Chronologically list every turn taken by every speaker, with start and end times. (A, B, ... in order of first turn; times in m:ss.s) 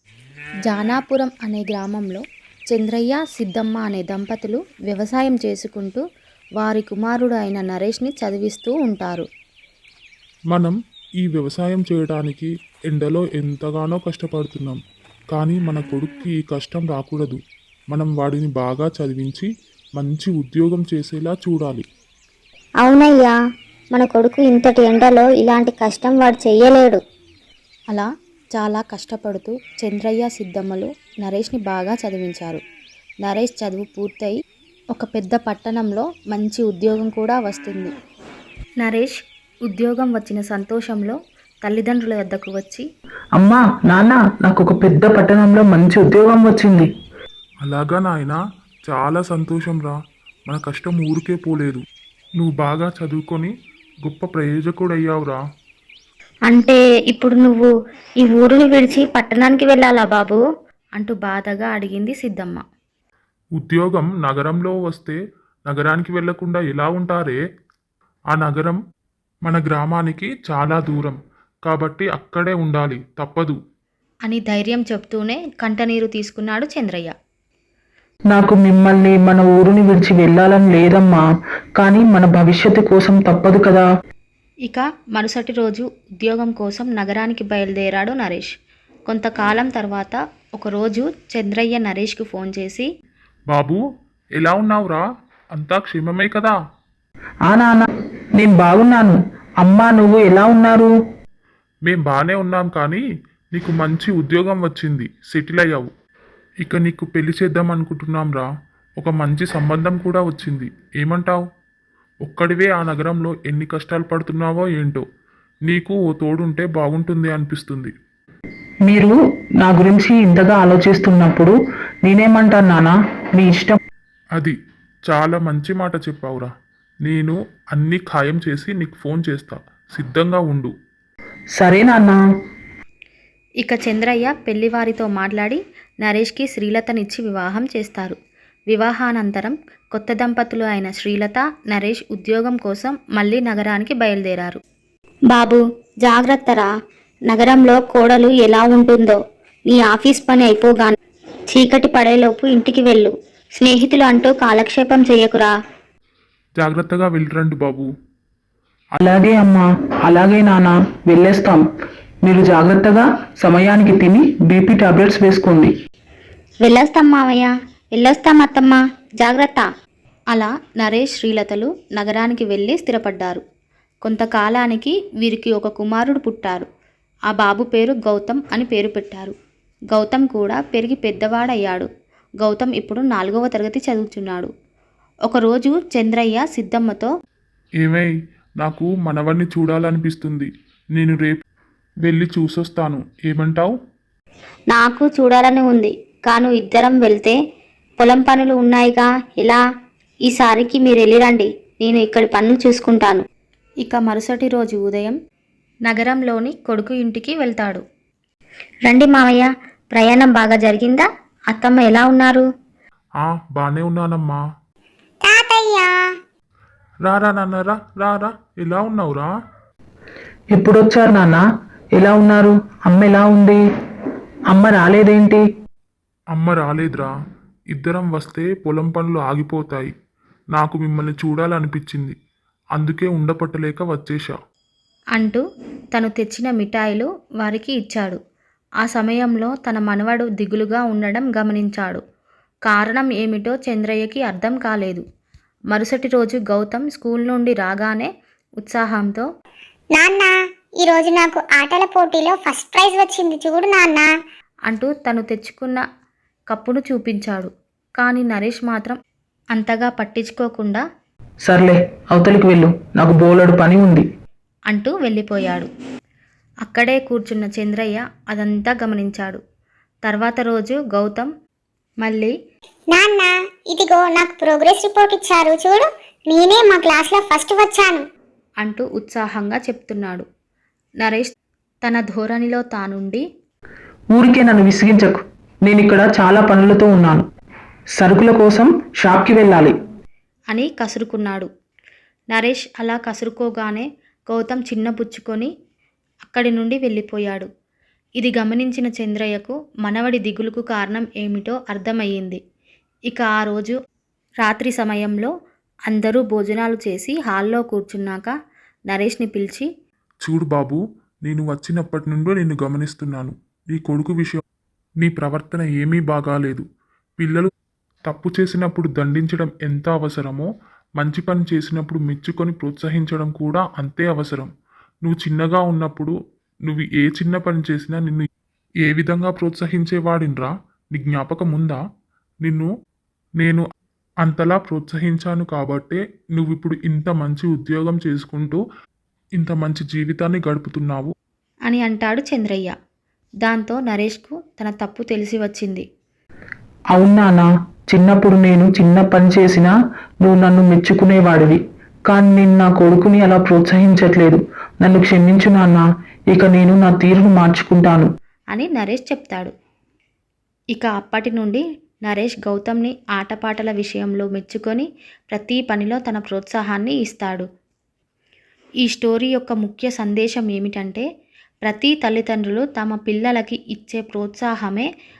0:00.7-0:06.0 A
0:06.6-0:09.3 A
0:10.5-0:14.8 B
0:15.3-0:17.4 B
0:17.9-0:21.8 B
0:22.8-0:23.3 C
0:23.9-0:27.0 C
0:27.9-0:32.6 A
0:33.2-0:34.4 A
0:34.9-0:37.9 A
0:38.8-0:39.1 A
0:39.7-0:42.9 A
0:43.4-0:46.9 D
0:47.6-0:50.0 B
0:50.5-0:51.8 B
0:52.4-0:53.5 B
0:54.0-0:55.4 B
0:56.5-0:57.7 C
0:58.2-1:00.4 C
1:01.0-1:02.6 A
1:03.6-1:07.4 B
1:08.3-1:08.8 B
1:09.4-1:13.6 B
1:14.2-1:17.1 A
1:18.3-1:21.2 D
1:21.8-1:23.8 D
1:24.6-1:28.5 A
1:29.1-1:32.9 A
1:33.5-1:33.8 B
1:34.4-1:35.0 B
1:35.5-1:36.6 B
1:37.5-1:37.8 D
1:38.4-1:40.9 D
1:41.8-1:43.0 B
1:43.5-1:45.9 B
1:46.6-1:48.5 B
1:49.0-1:51.4 B
1:52.2-1:55.0 B
1:55.7-1:57.9 B
1:58.9-2:01.5 D
2:02.0-2:03.8 D
2:05.1-2:06.5 B
2:07.0-2:10.7 B
2:11.6-2:12.1 D
2:13.6-2:18.2 A
2:18.7-2:24.6 A
2:25.3-2:26.7 C
2:27.3-2:29.2 C
2:29.7-2:30.9 C
2:31.5-2:35.5 C
2:36.6-2:37.9 B
2:39.0-2:41.6 D
2:42.2-2:45.7 D
2:46.6-2:49.6 C
2:50.3-2:53.4 A
2:54.0-2:56.6 A
2:57.3-2:59.3 A
2:59.9-3:01.9 A
3:02.4-3:04.5 A
3:05.3-3:07.1 A
3:07.8-3:11.4 B
3:12.0-3:13.7 B
3:14.7-3:17.3 C
3:18.0-3:19.6 C
3:20.3-3:23.2 C
3:23.8-3:25.1 A
3:25.9-3:27.8 A
3:28.9-3:29.4 C
3:30.0-3:31.0 C
3:31.6-3:32.3 A
3:31.6-3:32.4 C
3:33.2-3:34.4 B
3:35.2-3:35.9 E
3:37.0-3:39.3 B
3:40.5-3:41.4 D
3:42.0-3:43.6 D
3:44.5-3:45.4 D
3:46.3-3:47.1 B
3:47.7-3:49.9 B
3:50.5-3:52.2 B
3:52.7-3:54.4 B
3:55.1-3:55.4 A
3:55.9-3:58.2 A
3:58.8-4:02.0 A
4:02.7-4:05.0 A
4:05.7-4:09.2 A
4:10.0-4:10.3 E
4:10.8-4:14.1 E
4:14.7-4:15.8 A
4:16.5-4:19.0 A
4:19.5-4:20.8 A
4:21.5-4:24.0 D
4:24.7-4:25.7 A
4:26.6-4:29.4 A
4:30.0-4:31.3 A
4:32.0-4:32.3 A
4:32.9-4:38.0 E
4:38.6-4:40.2 A
4:41.0-4:41.3 A
4:41.8-4:43.2 A
4:44.1-4:47.2 D
4:48.0-4:49.7 D
4:50.5-4:51.5 A
4:52.3-4:55.5 A
4:56.2-4:57.5 A
4:58.2-5:02.4 A
5:03.1-5:03.8 A
5:04.4-5:05.3 A
5:05.9-5:08.3 A
5:08.9-5:09.7 A
5:10.2-5:14.4 B
5:15.0-5:16.6 B
5:17.2-5:17.4 B
5:18.1-5:20.5 B
5:21.0-5:24.5 B
5:25.0-5:26.1 B
5:26.7-5:28.2 B
5:28.8-5:31.8 B
5:32.4-5:32.7 B
5:33.4-5:33.6 B
5:34.2-5:38.6 B
5:39.4-5:41.1 B
5:41.7-5:42.7 A
5:43.4-5:45.8 A
5:47.0-5:58.1 D
5:58.5-5:59.5 A
6:00.7-6:07.4 A
6:08.8-6:11.0 A
6:11.6-6:14.9 A